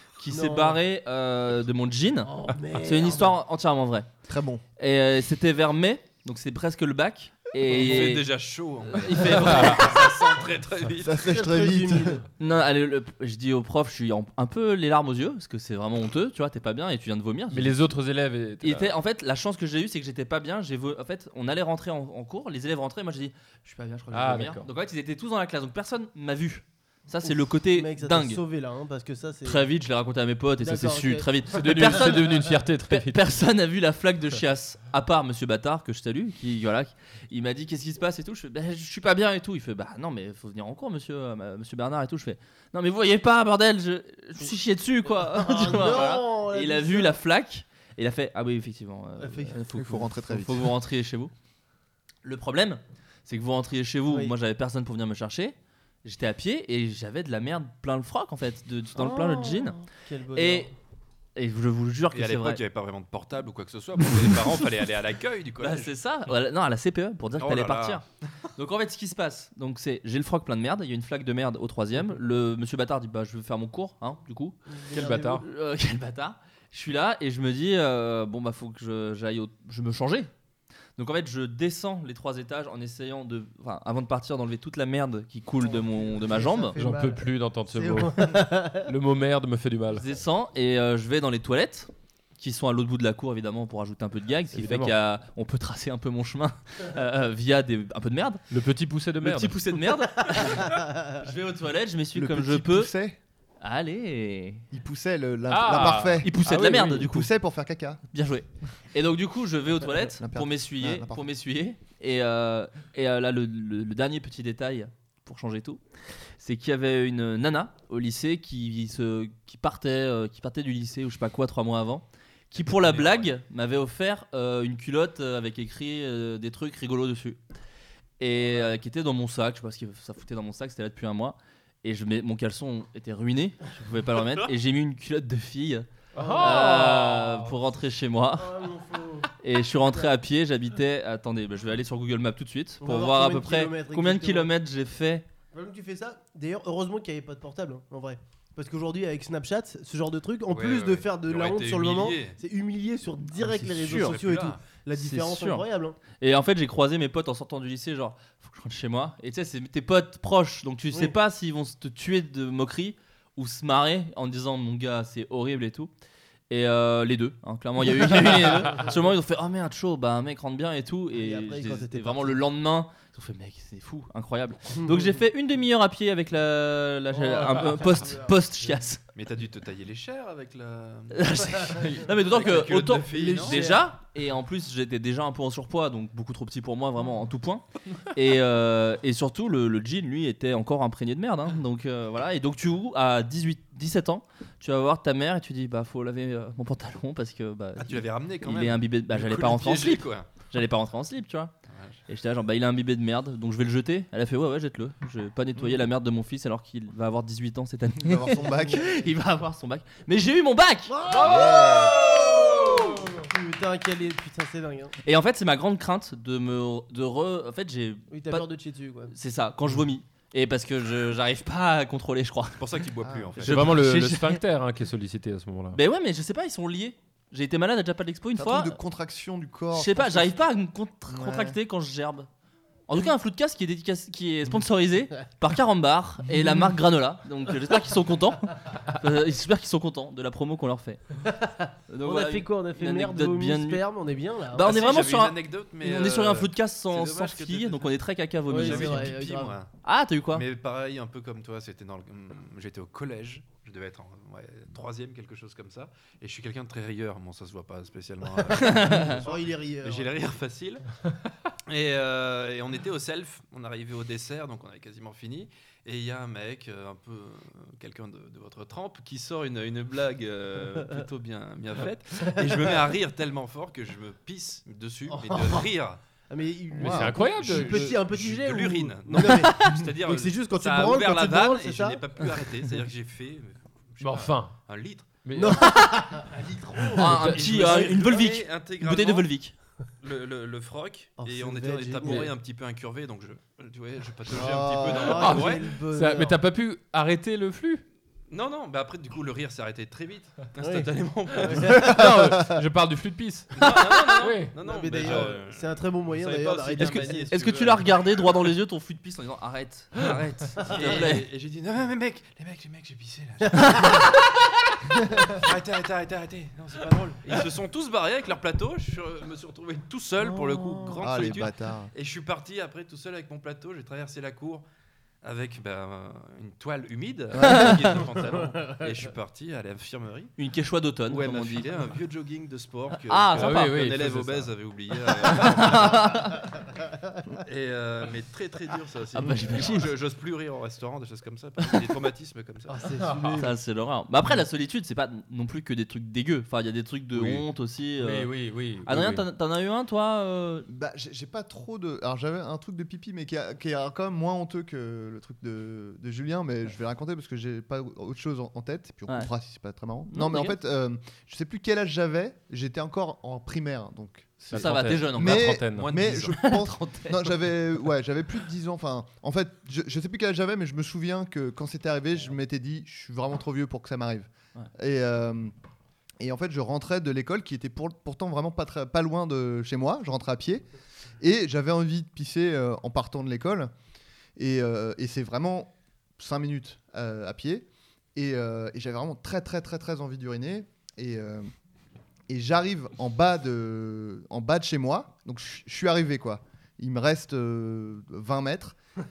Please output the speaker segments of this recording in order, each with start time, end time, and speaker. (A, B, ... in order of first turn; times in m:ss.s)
0:00.2-0:04.1 A
0:00.3-0:00.8 B
0:02.2-0:03.4 B
0:04.3-0:04.6 C
0:04.8-0:08.3 A
0:07.6-0:11.3 D
0:08.9-0:10.1 A
0:09.3-0:09.9 E
0:11.0-0:12.2 C
0:11.2-0:12.2 B
0:12.4-0:17.8 A
0:17.5-0:18.9 E
0:18.6-0:28.4 A
0:24.1-0:24.7 E
0:27.2-0:29.6 B
0:29.4-0:51.3 A
0:30.6-0:31.3 B
0:31.5-0:33.2 E
0:45.0-0:47.2 B
0:49.2-0:49.6 B
0:49.7-0:50.7 C
0:52.2-1:00.7 A
0:54.1-0:54.3 B
0:59.0-1:00.7 B
1:01.4-1:02.6 A
1:02.1-1:05.9 D
1:05.6-1:08.0 A
1:07.4-1:08.0 D
1:08.6-1:14.6 A
1:14.7-1:15.4 B
1:14.9-1:15.4 E
1:15.3-1:20.3 A
1:21.0-1:26.8 A
1:25.6-1:28.9 B
1:26.8-1:30.0 E
1:29.9-1:38.4 A
1:34.5-1:34.9 E
1:38.5-1:39.7 E
1:39.2-1:42.9 A
1:40.6-1:41.1 B
1:42.1-1:43.2 C
1:43.6-1:44.6 A
1:44.7-1:48.0 C
1:45.5-1:46.7 E
1:46.2-1:47.3 A
1:48.1-1:55.8 A
1:50.2-1:51.3 C
1:56.4-2:07.4 A
2:02.6-2:03.3 D
2:08.2-2:18.5 A
2:16.2-2:16.9 B
2:16.2-2:17.6 E
2:18.4-2:20.1 B
2:19.4-2:25.2 A
2:22.8-2:24.5 B
2:25.5-2:36.0 B
2:30.5-2:32.4 D
2:33.4-2:34.2 A
2:33.8-2:34.6 D
2:34.9-2:35.6 A
2:36.2-2:45.9 A
2:46.5-2:59.0 A
2:51.1-2:52.4 B
2:57.1-2:58.3 B
2:59.1-3:03.7 D
3:01.1-3:21.5 A
3:01.7-3:02.1 E
3:03.1-3:03.9 B
3:17.8-3:20.3 D
3:21.7-3:22.0 D
3:22.1-3:31.4 A
3:28.0-3:28.9 C
3:30.9-3:34.9 B
3:31.0-3:33.2 E
3:35.0-3:38.5 A
3:38.1-3:39.1 B
3:39.1-3:42.7 A
3:42.6-3:43.7 D
3:43.4-3:44.4 A
3:43.4-3:45.8 E
3:45.7-3:48.8 A
3:48.4-3:50.4 C
3:49.7-3:52.3 A
3:51.1-3:51.6 C
3:52.9-4:01.0 A
3:56.3-3:56.7 C
4:01.3-4:04.7 B
4:01.9-4:03.8 A
4:04.5-4:10.4 A
4:04.6-4:08.0 D
4:08.5-4:09.5 B
4:08.5-4:09.7 D
4:10.3-4:20.8 D
4:18.6-4:19.2 A
4:18.8-4:20.2 B
4:21.7-4:36.0 D
4:35.1-4:35.7 B
4:36.3-4:42.0 B
4:36.7-4:38.0 E
4:36.8-4:37.2 C
4:37.2-4:45.2 D
4:39.2-4:39.8 A
4:44.0-4:44.6 E
4:45.2-4:46.0 E
4:45.3-4:47.4 B
4:46.9-4:49.5 A
4:47.0-4:49.3 D
4:50.0-4:55.7 D
4:51.2-4:52.3 B
4:52.0-4:52.3 E
4:54.3-4:55.2 C
4:54.7-4:56.3 B
4:55.1-4:57.8 E
4:58.3-5:02.1 D
5:00.6-5:02.0 B
5:01.5-5:03.6 E
5:02.0-5:02.6 C
5:03.5-5:08.4 D
5:03.6-5:04.3 A
5:04.2-5:04.6 E
5:04.6-5:07.3 B
5:06.8-5:11.3 A
5:10.0-5:14.3 D
5:10.6-5:11.0 B
5:13.6-5:14.1 B
5:15.0-5:24.6 D
5:20.6-5:21.0 B
5:21.0-5:21.9 C
5:25.2-5:30.3 D
5:27.4-5:28.0 A
5:28.5-5:28.7 B
5:30.4-5:31.8 A
5:31.1-5:36.4 D
5:33.0-5:33.8 A
5:33.4-5:34.5 E
5:35.2-5:36.4 A
5:37.4-5:42.9 D
5:39.1-5:39.9 A
5:42.7-5:43.5 B
5:43.0-5:43.4 E
5:43.4-5:48.3 A
5:47.1-5:47.4 E
5:48.0-5:49.2 E
5:48.8-5:50.7 A
5:50.7-6:15.5 C
6:00.1-6:00.6 A
6:04.5-6:05.9 E
6:04.5-6:05.6 A
6:05.7-6:06.4 D
6:06.2-6:07.4 A
6:16.2-6:20.6 C
6:21.2-6:23.7 C
6:24.4-6:31.5 C
6:32.3-6:38.8 C